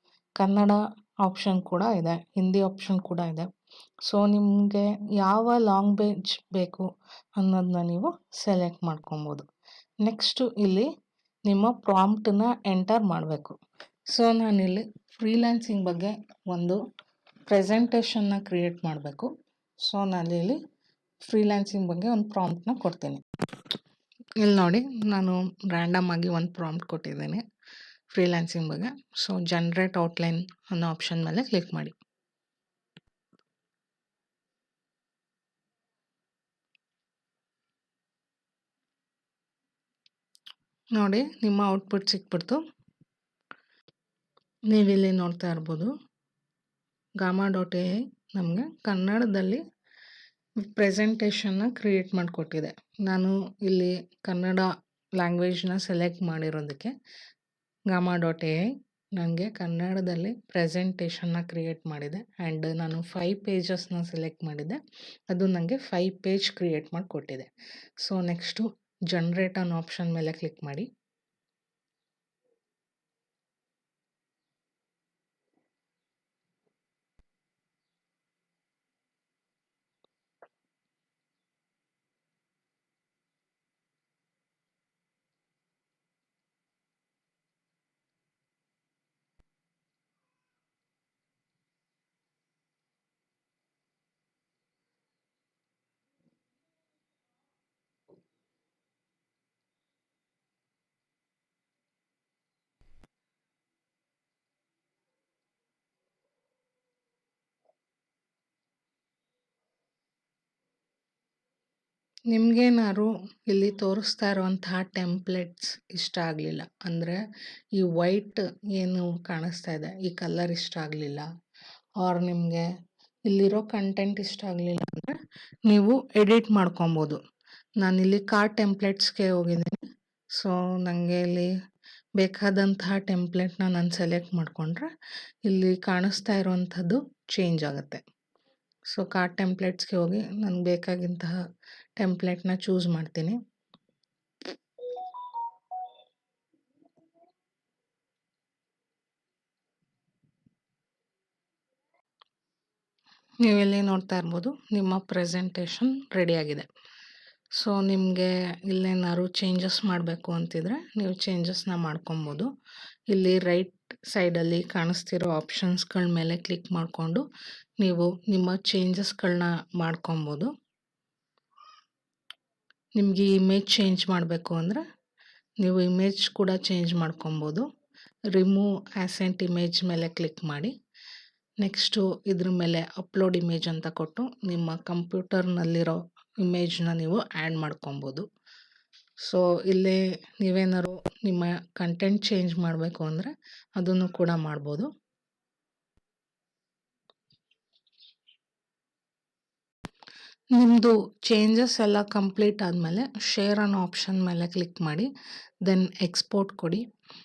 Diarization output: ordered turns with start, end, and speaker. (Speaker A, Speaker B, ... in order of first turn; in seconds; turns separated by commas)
Speaker A: 0.4-3.5, Speaker A: 4.0-9.4, Speaker A: 10.0-10.9, Speaker A: 11.4-13.6, Speaker A: 14.1-16.8, Speaker A: 17.5-20.6, Speaker A: 21.2-23.2, Speaker A: 24.4-27.4, Speaker A: 28.1-31.9, Speaker A: 40.9-42.6, Speaker A: 44.7-45.9, Speaker A: 47.2-49.6, Speaker A: 50.6-56.9, Speaker A: 57.9-67.5, Speaker A: 68.0-70.9, Speaker A: 112.3-117.2, Speaker A: 117.8-121.2, Speaker A: 122.0-122.7, Speaker A: 123.3-127.2, Speaker A: 127.8-131.5, Speaker A: 132.2-134.9, Speaker A: 135.4-138.0, Speaker A: 138.9-141.3, Speaker A: 142.0-143.4, Speaker A: 153.4-156.7, Speaker A: 157.6-162.5, Speaker A: 163.1-167.2, Speaker A: 167.8-170.5, Speaker A: 173.0-174.8, Speaker A: 175.6-177.6, Speaker A: 178.3-180.7, Speaker A: 181.6-188.2, Speaker A: 189.2-194.9, Speaker A: 200.5-205.1, Speaker A: 205.6-206.8